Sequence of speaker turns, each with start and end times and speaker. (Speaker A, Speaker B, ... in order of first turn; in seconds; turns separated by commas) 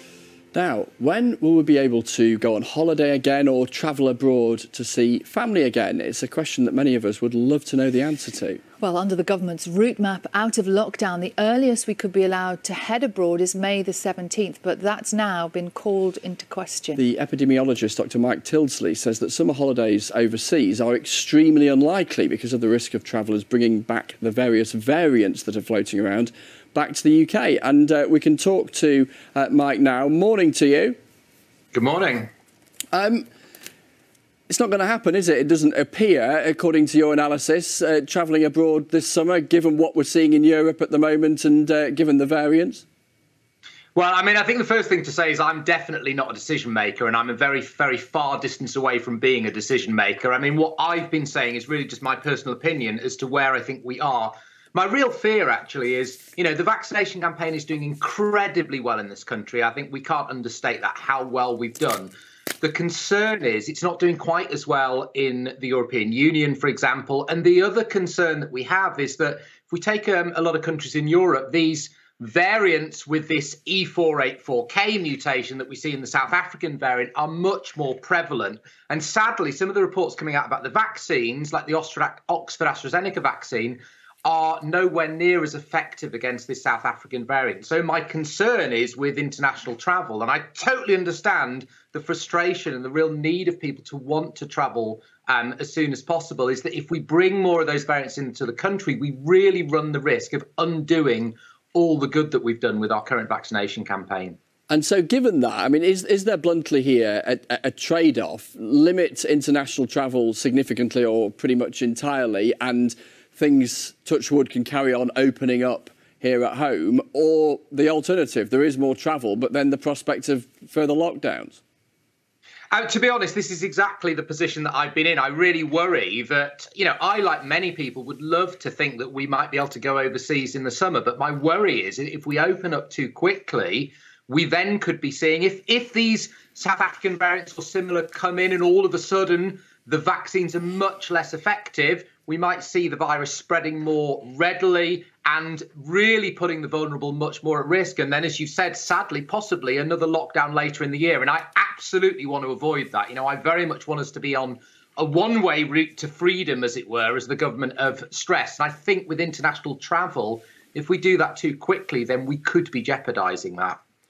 Speaker A: 0.5-8.6, Speaker B: 8.8-17.0, Speaker A: 17.0-30.9, Speaker C: 31.7-32.3, Speaker A: 32.9-33.2, Speaker A: 34.5-42.8, Speaker C: 43.9-104.4, Speaker A: 104.7-121.6, Speaker C: 122.7-163.8